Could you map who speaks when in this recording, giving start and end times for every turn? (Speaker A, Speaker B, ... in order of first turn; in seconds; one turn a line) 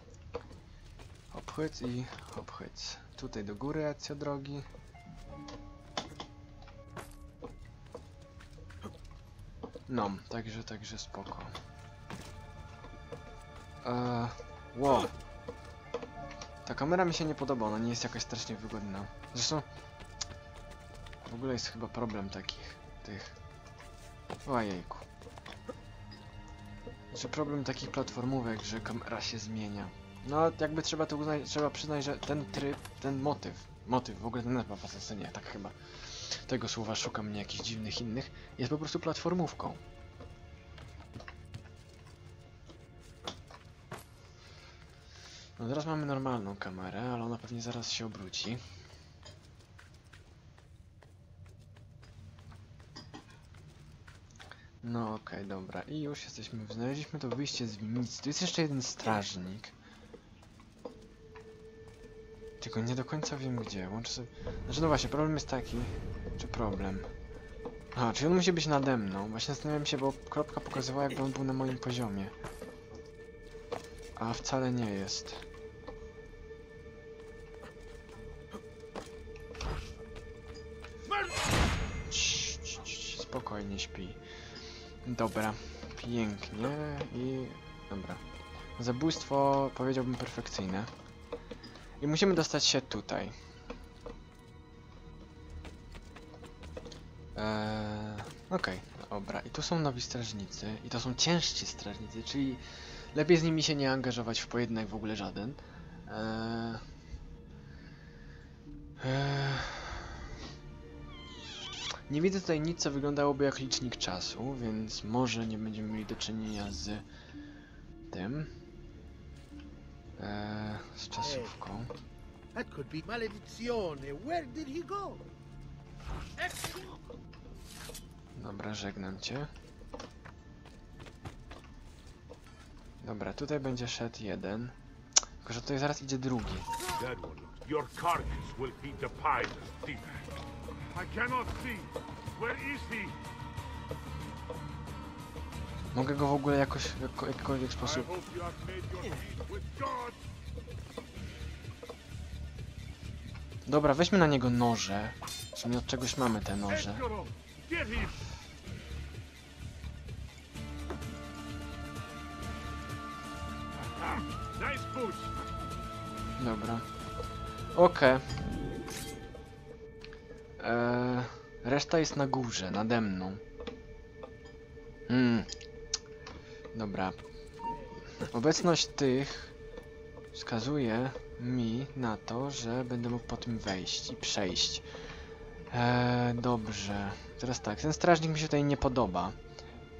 Speaker A: 1.3-4.6
Speaker A: 9.9-11.5
Speaker A: 13.8-15.1
Speaker A: 16.6-19.6
Speaker A: 21.2-23.4
Speaker A: 24.4-25.0
Speaker A: 27.1-39.8
Speaker A: 45.6-48.6
Speaker A: 54.8-59.7
Speaker A: 62.6-67.1
Speaker A: 67.9-72.3
Speaker A: 74.2-75.4
Speaker A: 82.1-84.2
Speaker A: 85.0-88.2
Speaker A: 88.8-90.9
Speaker A: 92.0-93.3
Speaker A: 97.3-106.8
Speaker A: 109.0-110.1
Speaker A: 112.1-117.0
Speaker A: 118.1-118.5
Speaker A: 120.2-121.9
Speaker B: 121.2-121.5
Speaker B: 122.5-125.2
Speaker B: 126.4-127.0
Speaker A: 128.3-129.5
Speaker A: 133.0-134.7
Speaker A: 135.4-136.7
Speaker C: 137.0-140.2
Speaker D: 140.9-143.1
Speaker A: 145.9-148.1
Speaker D: 148.1-150.1
Speaker A: 153.7-157.0
Speaker D: 156.7-158.1
Speaker D: 164.6-165.2
Speaker A: 166.4-166.9
Speaker A: 167.7-168.3
Speaker A: 170.6-173.4
Speaker A: 175.1-175.5
Speaker A: 176.7-177.2
Speaker A: 178.1-179.5
Speaker A: 180.3-184.8
Speaker A: 185.7-189.3